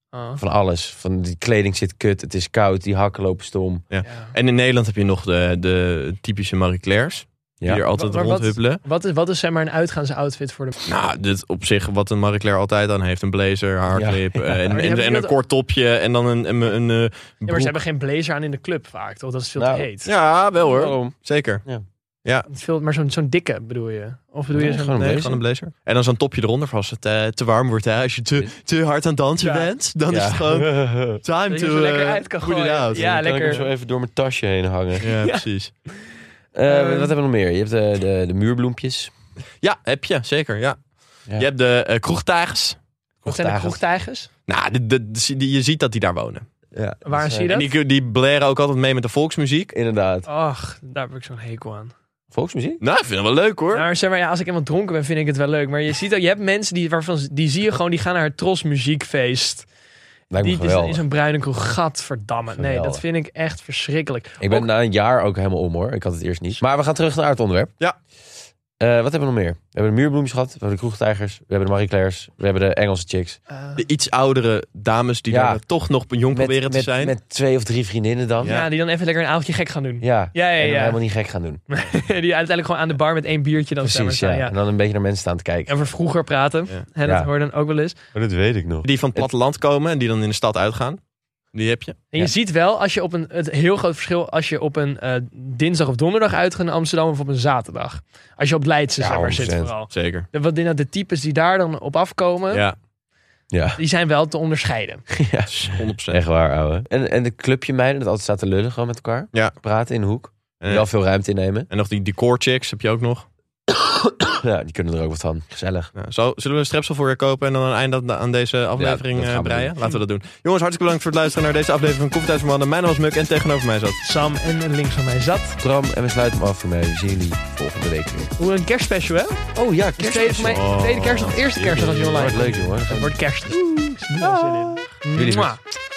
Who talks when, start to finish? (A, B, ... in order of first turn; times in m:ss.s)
0:00.1-0:00.4 A
0:00.4-0:03.8 B
0:03.9-0:08.8 C
0:04.0-0:04.3 A
0:08.0-0:10.7 A
0:10.8-0:17.7 C
0:13.9-0:14.8 B
0:14.7-0:15.3 A
0:17.5-0:20.1 A
0:19.6-0:19.9 B
0:20.0-0:21.6 C
0:20.6-0:21.8 B
0:22.5-0:25.2 A
0:24.5-0:25.4 B
0:25.0-0:33.4 C
0:29.4-0:29.7 A
0:30.1-0:31.2 B
0:31.5-0:33.6 A
0:32.9-0:35.1 B
0:35.0-0:35.7 C
0:35.0-0:36.1 A
0:36.5-0:39.1 B
0:36.7-0:37.1 A
0:39.6-0:40.8 C
0:41.4-0:42.8 C
0:43.2-0:43.8 B
0:43.3-0:44.3 A
0:44.5-0:46.5 C
0:46.7-0:47.5 B
0:47.0-0:47.7 A
0:47.5-0:49.7 C
0:49.7-0:50.3 B
0:50.3-0:51.9 A
0:52.3-0:52.8 B
0:52.8-0:53.9 C
0:53.7-0:59.7 A
1:00.3-1:01.0 B
1:00.4-1:04.7 A
1:02.5-1:03.0 B
1:04.4-1:07.7 B
1:08.8-1:13.4 B
1:13.5-1:13.8 A
1:13.8-1:17.2 C
1:15.3-1:15.6 B
1:16.3-1:18.6 B
1:18.4-1:18.7 C
1:18.4-1:21.0 A
1:20.0-1:21.6 B
1:21.7-1:24.5 A
1:23.8-1:25.8 B
1:25.7-1:28.0 A
1:27.0-1:27.3 B
1:28.2-1:29.3 B
1:28.8-1:31.0 C
1:31.5-1:32.0 C
1:32.1-1:42.7 A
1:39.0-1:39.7 B
1:39.9-1:40.3 C
1:43.5-1:43.8 B
1:43.8-1:45.0 A
1:45.1-1:51.7 B
1:45.5-1:46.2 C
1:50.6-1:50.9 C
1:51.7-1:53.3 C
1:53.7-1:55.9 B
1:56.0-2:04.0 C
1:58.8-1:59.7 B
2:04.0-2:05.6 A
2:05.6-2:08.3 B
2:08.4-2:09.4 A
2:09.6-2:10.7 B
2:10.0-2:15.6 A
2:10.4-2:12.5 C
2:11.5-2:15.6 B